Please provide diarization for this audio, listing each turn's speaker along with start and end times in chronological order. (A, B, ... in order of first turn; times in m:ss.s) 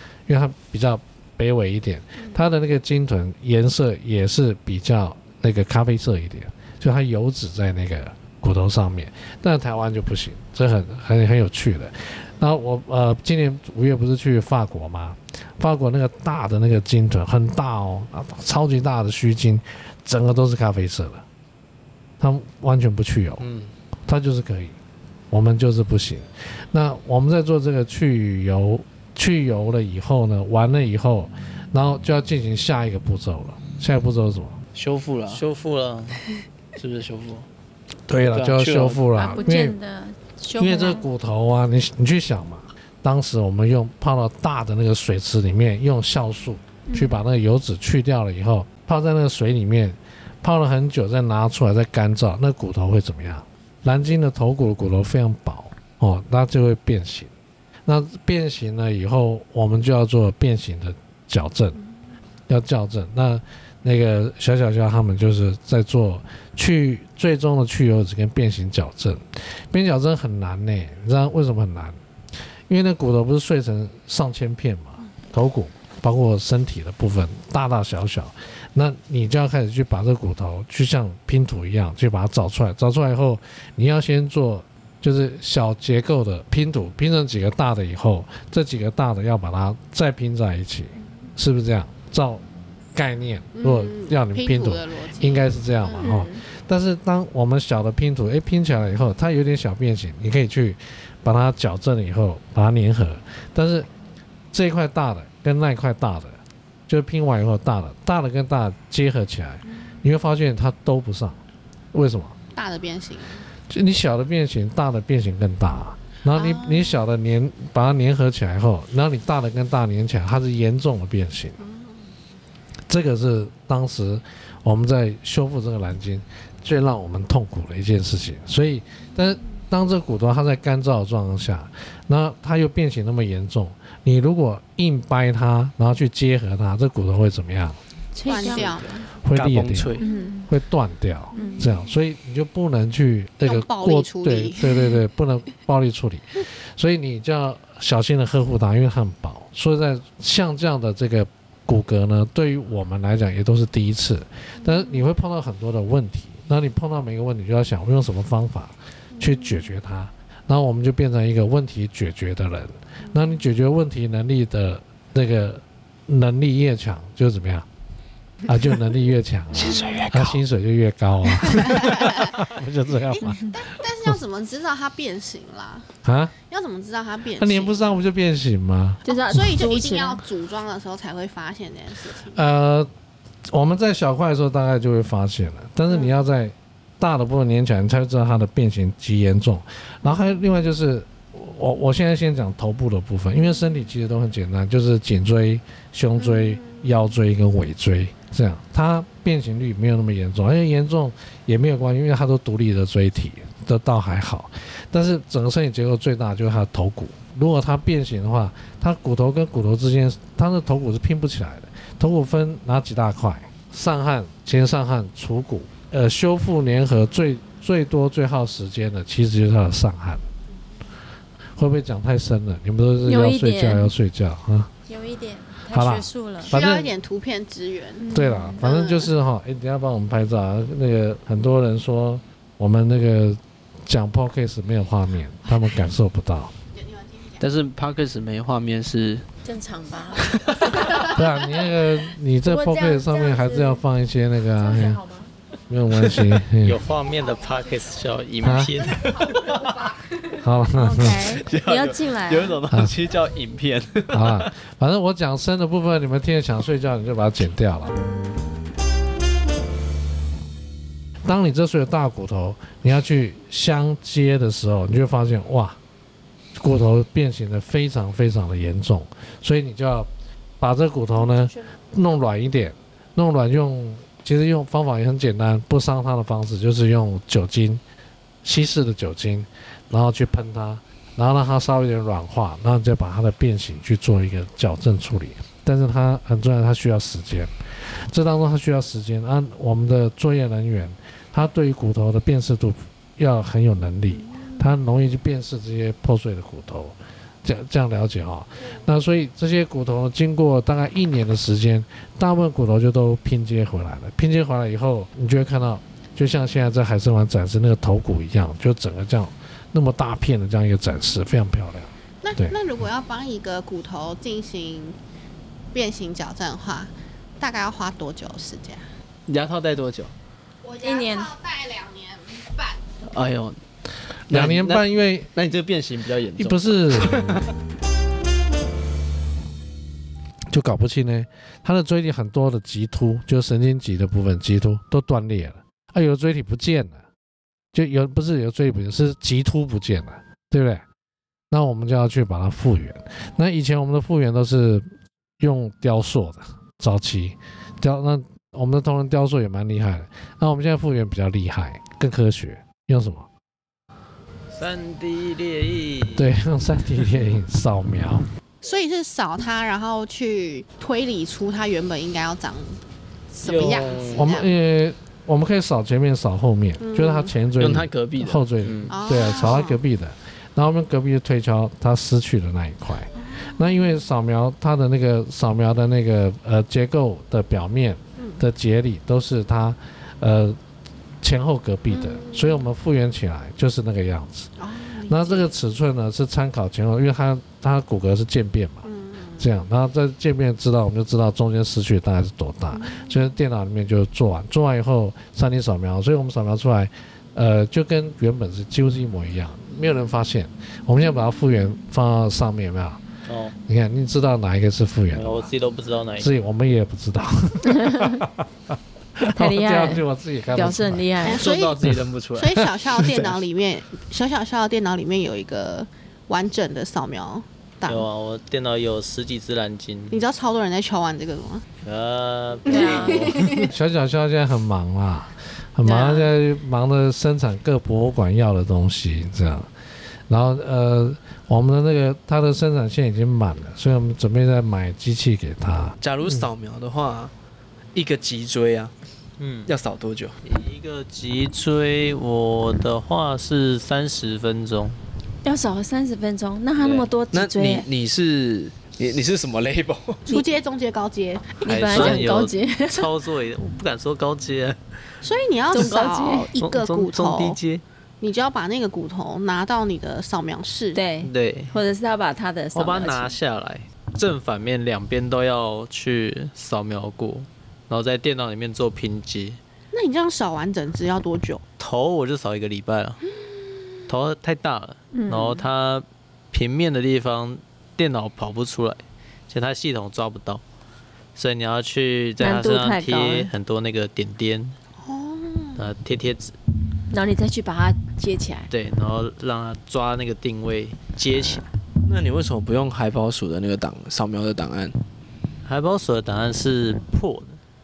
0:00.3-0:21.2 A
0:22.2-0:23.4 A
0:23.4-0:23.7 B
0:24.1-0:24.8 A
0:25.3-0:34.6 A
0:34.7-0:35.4 B
0:35.3-0:36.2 C
0:36.8-0:37.5 B
0:38.1-0:39.8 A
0:38.1-0:39.0 B
0:39.1-0:41.0 D
0:40.6-0:57.3 A
0:46.9-0:47.2 D
0:57.8-1:01.8 A
1:02.5-1:12.0 A
1:12.7-1:32.4 A
1:32.9-1:43.9 A
1:33.6-1:36.1 E
1:35.9-1:36.4 D
1:44.5-1:51.4 A
1:51.9-1:52.4 A
1:52.5-1:53.4 E
1:53.7-2:01.6 A
1:56.3-1:57.0 E
2:01.6-2:02.0 E
2:02.9-2:17.8 A
2:18.1-2:18.8 D
2:18.2-2:19.1 E
2:19.2-2:47.7 A
2:19.3-2:20.0 B
2:20.0-2:20.5 D
2:21.3-2:21.7 D
2:21.3-2:21.7 E
2:23.4-2:24.9 E
2:39.2-2:39.5 E
2:48.4-2:53.4 A
2:49.5-2:50.4 B
2:51.4-2:52.4 E
2:53.1-2:55.9 E
2:56.0-2:56.3 A
2:56.5-2:57.9 E
2:57.4-2:59.0 A
2:59.0-3:00.2 D
2:59.1-3:02.4 E
3:02.3-3:02.9 A
3:03.5-3:40.2 A
3:10.0-3:10.4 E
3:16.2-3:16.8 E
3:41.6-3:44.7 A
3:43.0-3:43.9 D
3:44.9-3:46.5 D
3:45.7-3:46.9 A
3:46.5-3:49.1 E
3:48.0-3:48.6 D
3:48.1-3:56.5 A
3:56.7-3:57.4 E
3:57.4-3:59.2 B
3:59.4-4:01.2 D
4:00.2-4:00.9 B
4:01.0-4:05.0 A
4:02.4-4:03.8 D
4:04.5-4:05.3 D
4:05.7-4:06.8 A
4:06.6-4:09.1 C
4:08.4-4:08.8 A
4:09.0-4:09.9 B
4:10.4-4:11.4 A
4:10.7-4:12.6 D
4:11.1-4:14.5 B
4:14.1-4:18.0 A
4:21.2-4:25.8 A
4:26.5-4:30.1 A
4:30.6-4:37.8 A
4:38.4-5:12.6 A
5:12.2-5:15.0 E
5:15.7-5:18.8 E
5:19.3-5:20.1 B
5:20.6-5:22.8 E
5:20.8-5:21.3 D
5:23.1-5:23.6 B
5:24.3-5:25.3 A
5:24.3-5:27.4 B
5:26.4-5:27.4 A
5:30.5-5:37.0 A
5:37.7-5:40.8 A
5:41.5-5:44.9 A
5:45.4-5:53.3 A
5:54.5-5:56.3 C
5:56.1-5:58.3 A
5:58.6-6:02.8 E
6:03.3-6:04.5 E
6:03.4-6:04.2 C
6:03.5-6:04.1 B
6:04.1-6:20.6 A
6:06.8-6:07.3 E
6:07.6-6:08.4 B
6:08.6-6:09.0 C
6:08.9-6:09.8 E
6:13.2-6:14.0 E
6:18.2-6:18.4 E
6:21.2-6:24.5 A
6:21.9-6:22.7 E
6:24.6-6:25.5 E
6:25.1-6:28.9 A
6:28.8-6:29.5 E
6:29.4-6:43.0 A
6:32.7-6:33.3 E
6:43.3-6:43.5 C
6:43.6-6:45.5 A
6:45.1-6:46.3 C
6:46.2-6:51.2 A
6:47.6-6:48.2 D
6:49.2-6:51.5 D
6:51.2-6:51.8 E
6:51.3-6:53.4 B
6:52.4-6:58.1 E
6:57.8-7:00.2 C
7:00.1-7:01.6 E
7:01.8-7:03.7 C
7:02.7-7:03.5 D
7:02.7-7:03.7 E
7:03.6-7:09.7 A
7:05.8-7:06.3 D
7:10.3-7:16.0 A
7:16.0-7:17.3 B
7:17.9-7:18.9 B
7:19.4-7:19.7 C
7:19.6-7:20.4 B
7:20.4-7:25.0 C
7:25.4-7:27.9 D
7:26.8-7:27.1 C
7:27.3-7:30.3 B
7:30.3-7:31.6 E
7:31.6-7:33.1 D
7:31.7-7:34.8 C
7:31.9-7:32.2 B
7:35.2-7:37.6 E
7:35.7-7:36.5 D
7:36.6-7:37.8 C
7:38.2-7:41.0 E
7:40.9-7:43.4 D
7:41.2-7:41.7 C
7:42.7-7:49.6 C
7:49.9-7:51.6 E
7:51.8-7:53.2 C
7:53.4-7:54.0 E
7:54.1-8:00.6 C
7:55.1-7:55.6 D
8:01.3-8:04.7 C
8:02.4-8:03.5 D
8:05.0-8:05.9 E
8:05.8-8:06.5 C
8:07.1-8:08.7 D
8:08.7-8:11.7 C
8:12.0-8:15.0 B
8:15.6-8:17.6 C